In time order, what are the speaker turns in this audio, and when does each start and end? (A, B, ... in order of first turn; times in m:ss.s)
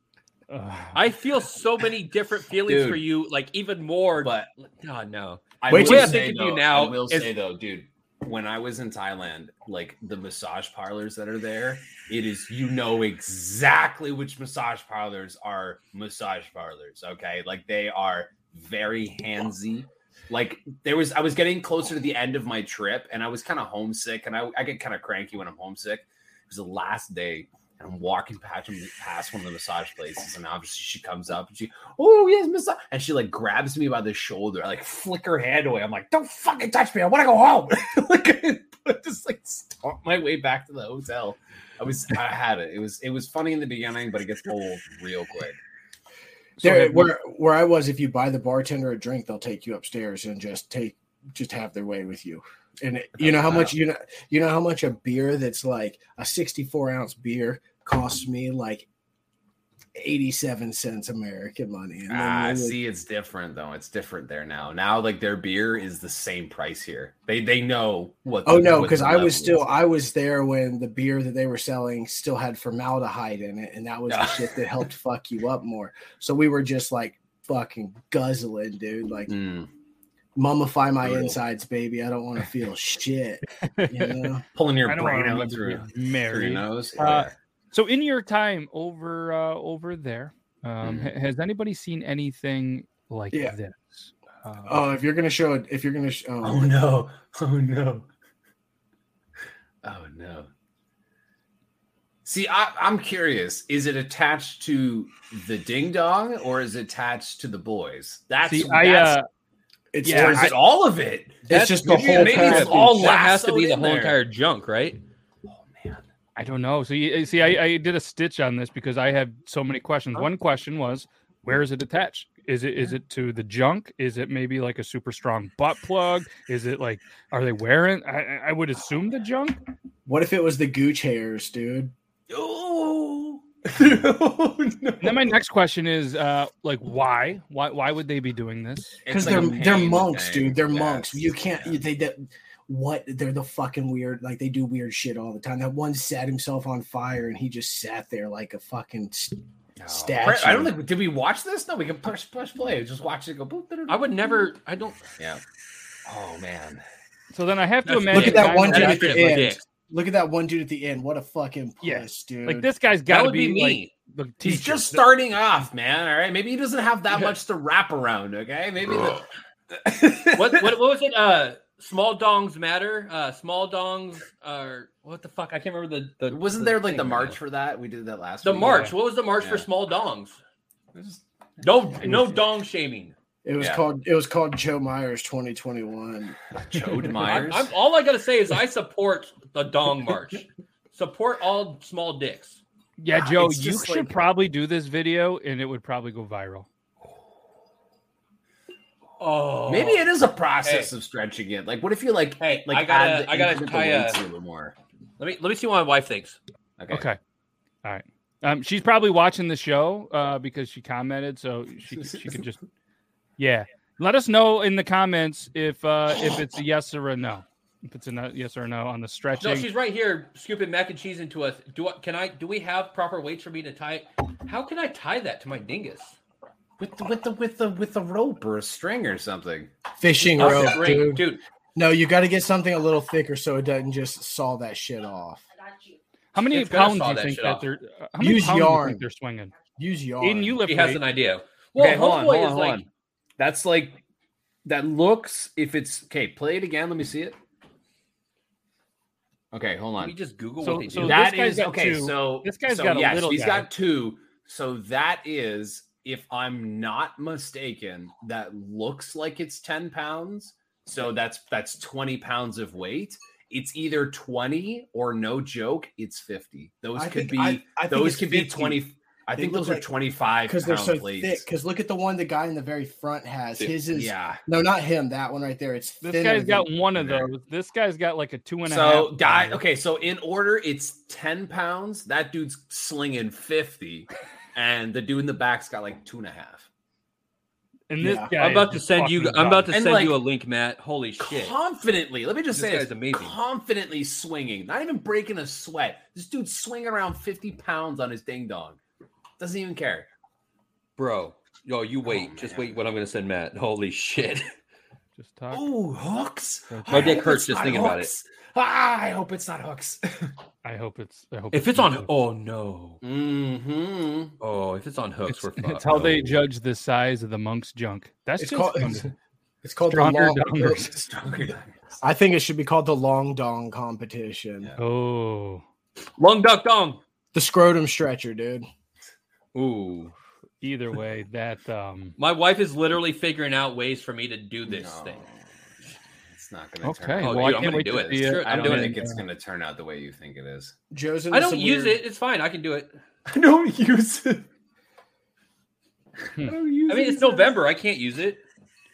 0:00.5-0:01.0 A
0:00.9-0:07.3 B
0:02.6-0:03.0 C
0:04.2-0:04.5 C
0:05.6-0:45.6 C
0:05.7-0:06.2 D
0:46.6-0:47.1 A
0:46.6-0:58.8 D
0:53.2-0:53.8 C
1:00.0-1:02.8 D
1:02.1-1:09.7 C
1:08.4-1:19.3 D
1:14.1-1:14.5 B
1:19.3-1:19.7 C
1:20.4-1:24.4 D
1:21.0-1:21.4 C
1:23.6-1:24.3 A
1:24.5-1:27.3 C
1:24.8-1:34.8 A
1:30.8-1:31.1 C
1:34.6-1:36.7 D
1:36.4-1:38.1 C
1:39.8-1:40.5 C
1:42.2-1:49.2 C
1:48.4-1:49.3 A
1:49.9-1:50.6 D
1:50.0-1:50.6 A
1:50.1-1:54.2 C
1:51.5-1:53.0 D
1:51.5-1:55.0 B
1:55.5-1:56.1 C
1:56.4-2:09.6 A
2:10.0-2:11.9 D
2:12.3-2:15.3 C
2:15.0-2:19.3 A
2:19.0-2:21.8 C
2:19.1-2:30.7 D
2:29.8-2:34.2 C
2:33.9-2:35.0 B
2:35.2-2:35.4 C
2:36.0-2:36.8 C
2:37.3-2:39.4 A
2:37.8-2:39.6 B
2:38.1-2:42.7 D
2:41.8-2:45.0 A
2:43.1-2:43.9 B
2:44.4-2:50.8 C
2:50.3-2:57.4 B
2:56.3-2:59.6 C
2:58.4-3:00.4 B
3:00.9-3:02.2 C
3:01.6-3:03.1 B
3:03.4-3:06.4 D
3:03.6-3:03.8 C
3:06.6-3:07.7 C
3:07.2-3:12.6 B
3:13.0-3:16.7 A
3:13.2-3:14.1 D
3:19.2-3:20.9 B
3:19.7-3:24.8 C
3:22.4-3:24.2 B
3:25.2-3:26.4 B
3:26.8-3:27.0 C
3:26.9-3:27.2 A
3:27.8-3:32.6 A
3:31.9-3:32.4 C
3:33.4-3:39.7 A
3:39.4-3:46.2 B
3:46.8-3:49.7 C
3:50.0-3:55.5 D
3:50.2-3:51.4 B
3:50.4-3:50.7 C
3:56.3-3:59.5 A
3:56.4-3:57.6 B
3:58.2-3:59.0 D
3:59.8-4:00.6 D
4:00.2-4:01.0 A
4:00.6-4:02.8 B
4:01.8-4:02.9 C
4:03.4-4:04.0 C
4:04.6-4:07.4 C
4:09.5-4:10.1 C
4:10.0-4:11.2 B
4:10.6-4:13.7 A
4:11.0-4:31.4 C
4:26.9-4:28.8 D
4:29.3-4:29.9 D
4:30.4-4:36.7 D
4:33.9-4:34.4 C
4:36.0-4:39.6 A
4:36.9-4:37.3 C
4:38.6-4:46.7 C
4:47.9-4:49.7 A
4:48.0-4:48.3 D
4:48.4-4:51.5 B
4:49.7-4:50.2 C
4:51.2-4:58.8 C
4:52.5-4:53.4 B
4:59.4-5:00.1 C
5:01.0-5:04.4 B
5:02.0-5:02.8 C
5:05.2-5:05.6 A
5:05.5-5:10.3 C
5:06.7-5:07.2 A
5:06.9-5:08.1 B
5:10.6-5:12.2 A
5:11.5-5:13.0 B
5:13.0-5:14.3 C
5:14.4-5:16.1 B
5:15.3-5:19.1 A
5:15.9-5:16.4 C
5:18.4-5:20.9 D
5:19.9-5:20.9 A
5:20.7-5:21.9 C
5:22.0-5:24.7 D
5:24.8-5:25.6 A
5:26.2-5:27.0 B
5:27.3-5:28.7 D
5:29.5-5:30.1 B
5:30.6-5:32.2 A
5:32.2-5:35.2 B
5:34.7-5:35.5 C
5:36.3-5:40.7 C
5:36.8-5:39.2 A
5:37.2-5:39.0 B
5:40.9-5:42.0 D
5:41.3-5:42.9 B
5:43.3-5:44.4 C
5:46.4-5:47.5 C
5:46.9-5:48.4 B